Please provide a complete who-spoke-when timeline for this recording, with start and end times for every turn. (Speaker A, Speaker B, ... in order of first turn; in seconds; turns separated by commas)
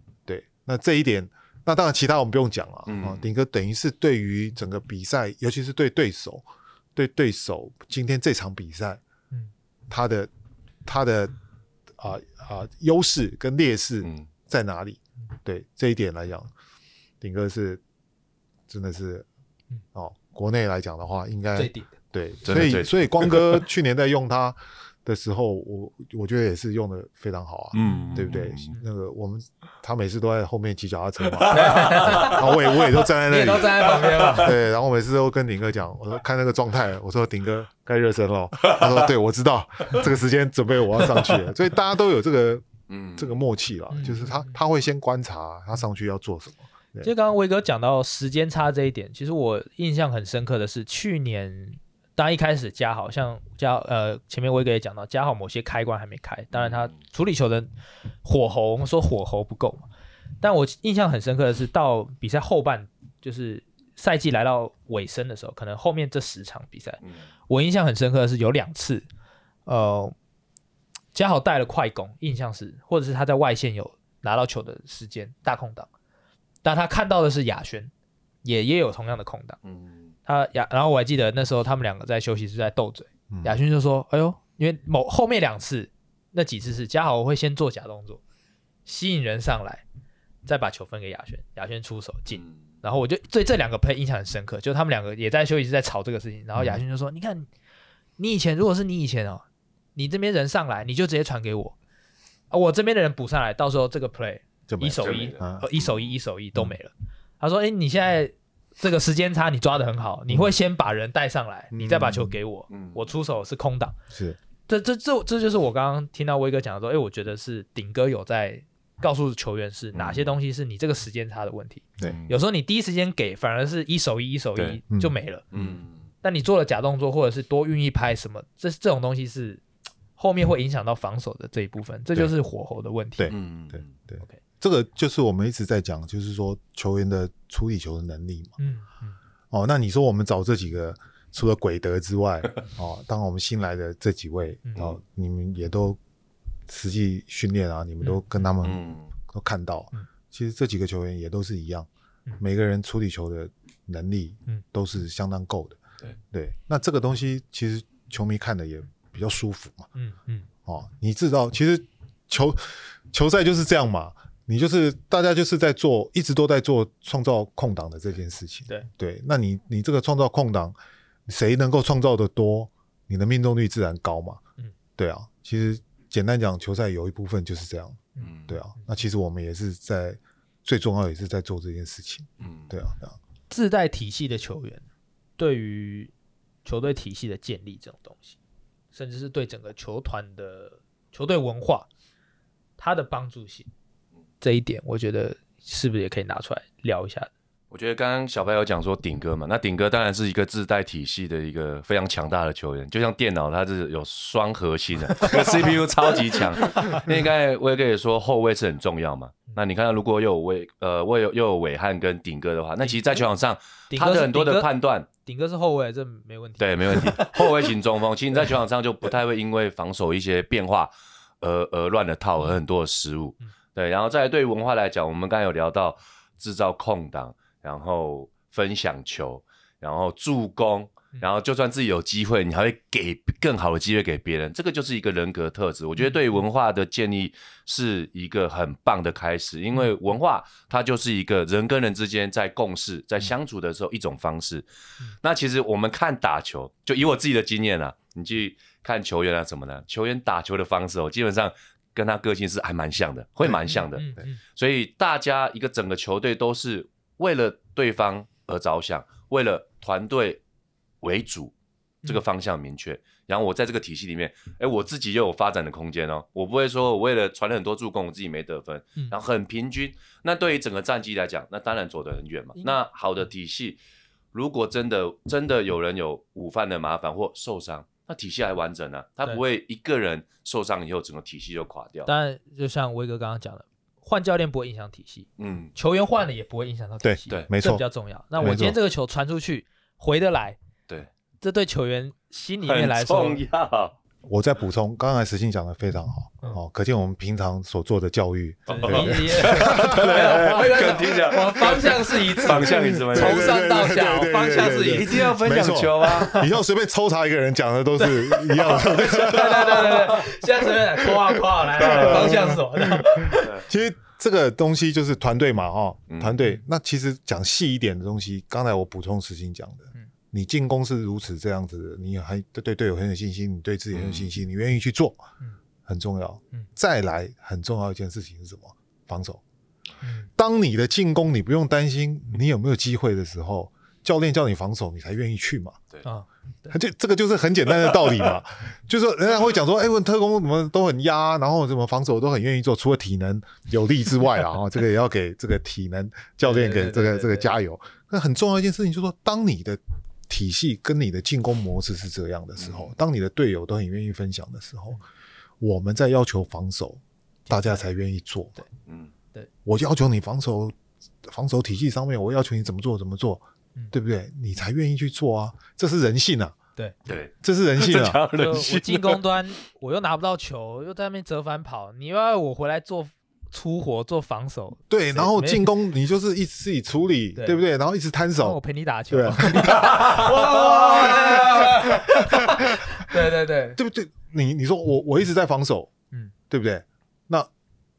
Speaker A: 0.2-6.4, Speaker B: 2.9-3.2, Speaker A: 7.0-9.0, Speaker A: 9.9-10.3, Speaker A: 10.8-11.3, Speaker A: 12.0-16.5, Speaker A: 17.2-17.8, Speaker A: 18.7-19.3, Speaker A: 19.9-47.1, Speaker C: 21.5-21.9, Speaker B: 22.4-23.6, Speaker B: 27.7-28.7, Speaker C: 27.8-28.8, Speaker B: 31.4-32.4, Speaker C: 31.5-34.6, Speaker B: 33.9-34.3, Speaker B: 42.9-43.4, Speaker C: 43.9-44.5, Speaker C: 47.0-57.7, Speaker B: 56.5-56.9, Speaker C: 58.2-59.9, Speaker C: 60.4-69.1, Speaker C: 69.7-70.1, Speaker C: 71.1-75.9, Speaker C: 76.6-77.9, Speaker C: 78.4-79.6, Speaker B: 79.6-80.1, Speaker C: 80.2-88.2, Speaker A: 83.3-83.6, Speaker C: 88.8-89.8, Speaker C: 90.4-97.5, Speaker C: 98.2-99.4, Speaker C: 100.0-101.7, Speaker C: 102.5-114.0, Speaker A: 104.7-105.7, Speaker B: 105.0-106.1, Speaker A: 111.7-112.3, Speaker B: 112.7-113.1, Speaker A: 114.1-114.4, Speaker C: 114.7-125.4, Speaker B: 119.9-120.3, Speaker B: 122.0-122.3, Speaker B: 125.5-126.0, Speaker C: 126.2-129.6, Speaker C: 130.2-133.3, Speaker A: 133.2-138.6, Speaker B: 133.3-133.9, Speaker C: 138.6-139.2, Speaker A: 139.5-146.0, Speaker A: 146.7-151.9, Speaker B: 148.6-149.1, Speaker A: 152.4-159.9, Speaker C: 159.9-160.5, Speaker A: 160.6-170.8, Speaker A: 171.3-174.4, Speaker A: 175.0-183.2, Speaker B: 178.2-178.6, Speaker B: 182.4-182.7, Speaker C: 183.5-184.8, Speaker C: 185.4-186.1, Speaker C: 186.6-188.4, Speaker C: 188.9-191.9, Speaker C: 192.8-193.7, Speaker C: 194.4-197.3, Speaker B: 197.7-215.1, Speaker C: 206.6-207.1, Speaker C: 212.8-213.2, Speaker C: 213.9-214.7, Speaker C: 215.2-217.5, Speaker B: 216.6-244.7, Speaker C: 236.0-236.4, Speaker B: 245.2-260.4, Speaker C: 253.7-254.4, Speaker B: 261.0-261.5, Speaker B: 262.0-273.8, Speaker C: 272.6-272.8, Speaker B: 274.3-282.1, Speaker C: 282.1-290.6, Speaker B: 285.4-285.7, Speaker A: 287.0-287.8, Speaker A: 288.4-288.8, Speaker C: 291.4-293.4, Speaker B: 292.6-293.9, Speaker A: 294.2-300.7, Speaker B: 298.7-303.6, Speaker C: 298.7-305.3, Speaker A: 302.6-310.2, Speaker B: 304.4-306.3, Speaker C: 306.0-306.5, Speaker C: 308.0-313.6, Speaker B: 309.5-310.2, Speaker A: 311.6-325.2, Speaker B: 311.8-312.4, Speaker B: 313.4-313.6, Speaker B: 316.1-316.4, Speaker B: 323.9-324.3, Speaker A: 325.9-329.4, Speaker C: 330.0-330.3, Speaker A: 330.4-335.8, Speaker C: 336.0-336.8, Speaker A: 336.7-355.0, Speaker C: 346.4-347.5, Speaker B: 352.6-352.9, Speaker A: 355.6-358.6, Speaker C: 357.5-357.8, Speaker B: 358.9-359.1, Speaker A: 359.6-366.6, Speaker B: 367.1-369.2, Speaker A: 367.4-368.2, Speaker C: 368.3-375.7, Speaker A: 374.9-383.1, Speaker C: 377.4-377.6, Speaker C: 378.4-383.8, Speaker B: 379.8-380.2, Speaker A: 383.8-385.9, Speaker A: 386.5-387.5